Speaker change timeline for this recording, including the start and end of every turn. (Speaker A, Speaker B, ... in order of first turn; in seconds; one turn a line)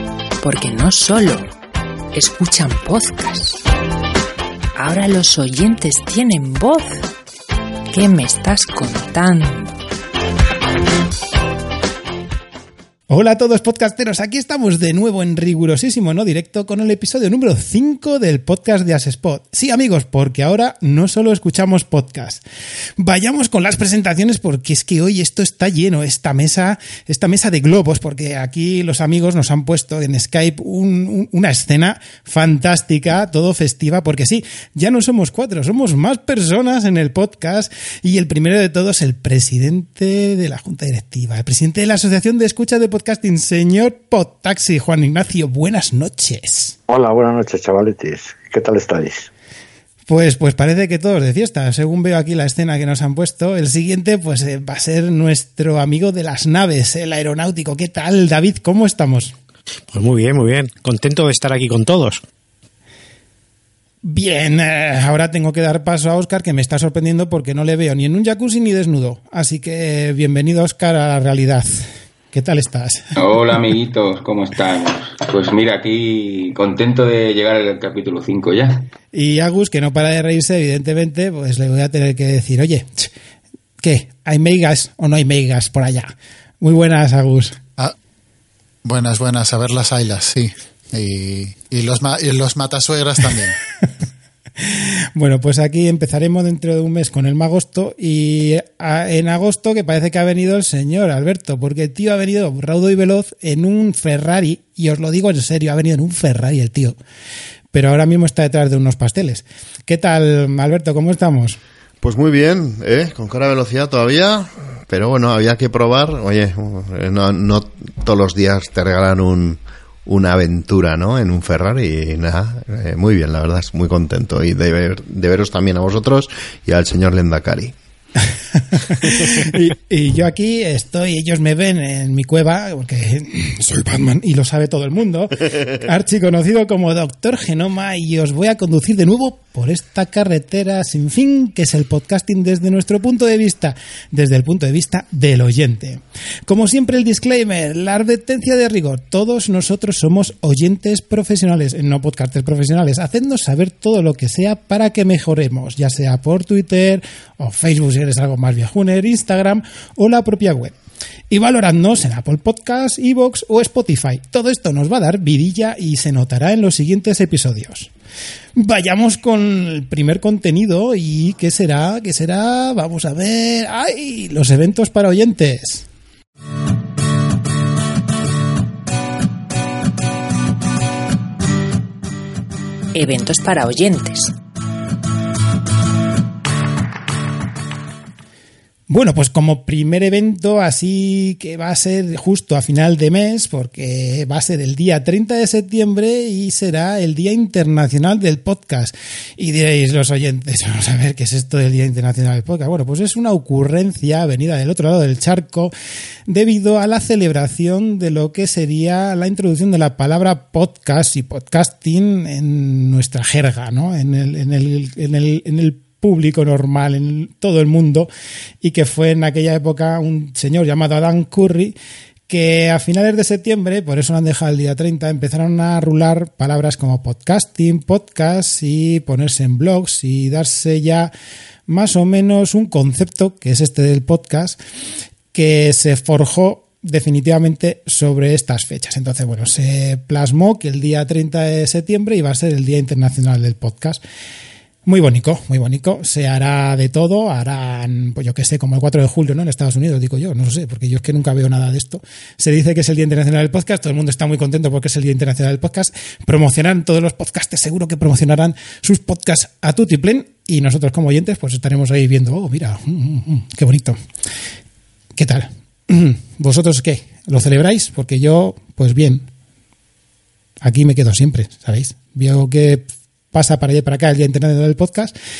Speaker A: 0.4-1.4
Speaker A: 2.1-3.6
Speaker A: 4.8-7.0
Speaker A: 7.9-9.7
Speaker B: 13.1-22.4
Speaker B: 23.0-46.8
Speaker C: 46.9-49.3
Speaker B: 50.1-59.3
Speaker D: 59.9-62.2
Speaker B: 64.0-73.1
Speaker E: 73.2-78.9
Speaker B: 79.1-83.1
Speaker B: 83.8-87.6
Speaker F: 88.8-93.5
Speaker B: 94.6-107.0
Speaker B: 107.7-111.6
Speaker G: 112.0-127.7
Speaker B: 129.0-160.8
Speaker B: 161.3-167.9
Speaker B: 168.6-175.8
Speaker A: 182.9-184.3
Speaker B: 188.9-205.7
Speaker B: 206.3-218.1
Speaker B: 218.6-221.7
Speaker B: 222.3-231.1
Speaker B: 231.7-234.6
Speaker B: 235.3-244.0
Speaker B: 244.8-264.0
Speaker B: 265.2-269.3
Speaker B: 270.6-275.1